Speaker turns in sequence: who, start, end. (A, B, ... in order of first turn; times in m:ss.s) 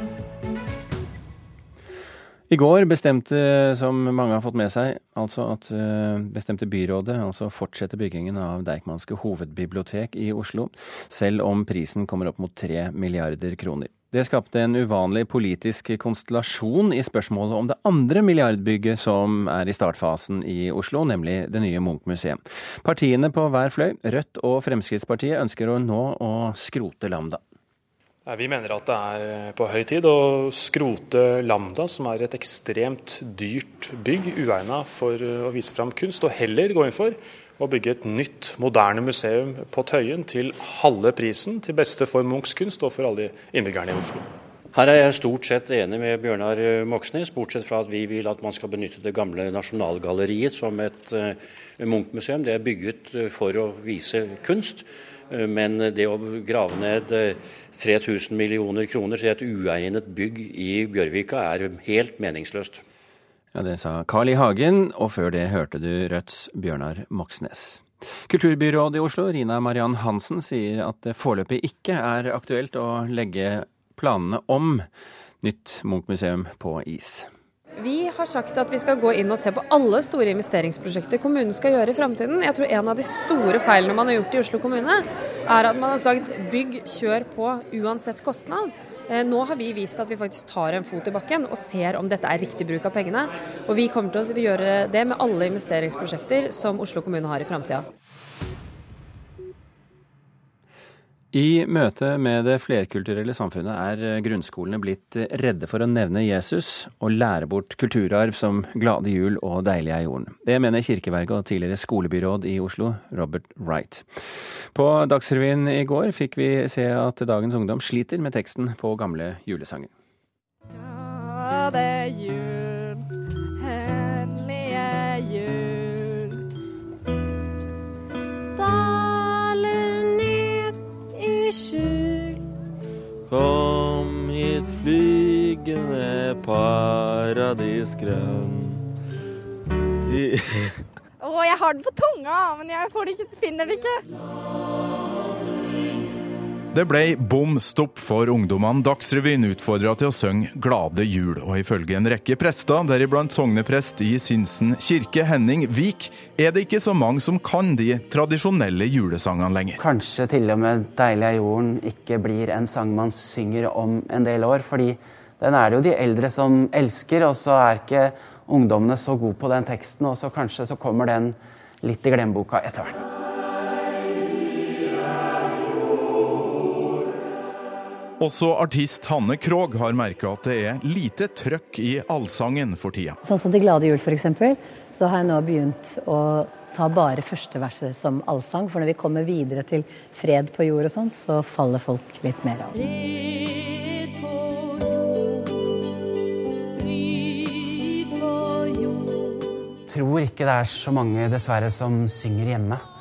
0:02.5-0:27.4 A
0:28.2-0:44.3 B
0:44.7-1:02.8 C
1:03.5-1:14.8 A
1:15.4-1:17.3 A
1:17.8-1:37.9 D
1:41.3-1:54.0 A
1:54.7-1:59.9 A
2:00.8-2:02.9 E
2:04.5-2:06.0 E
2:13.2-2:18.8 F
2:20.0-2:20.8 F
2:21.2-2:23.9 E
2:26.7-2:39.8 G
2:39.8-2:53.0 H
2:58.2-3:03.2 G
3:03.2-3:12.7 I
3:19.9-3:22.8 H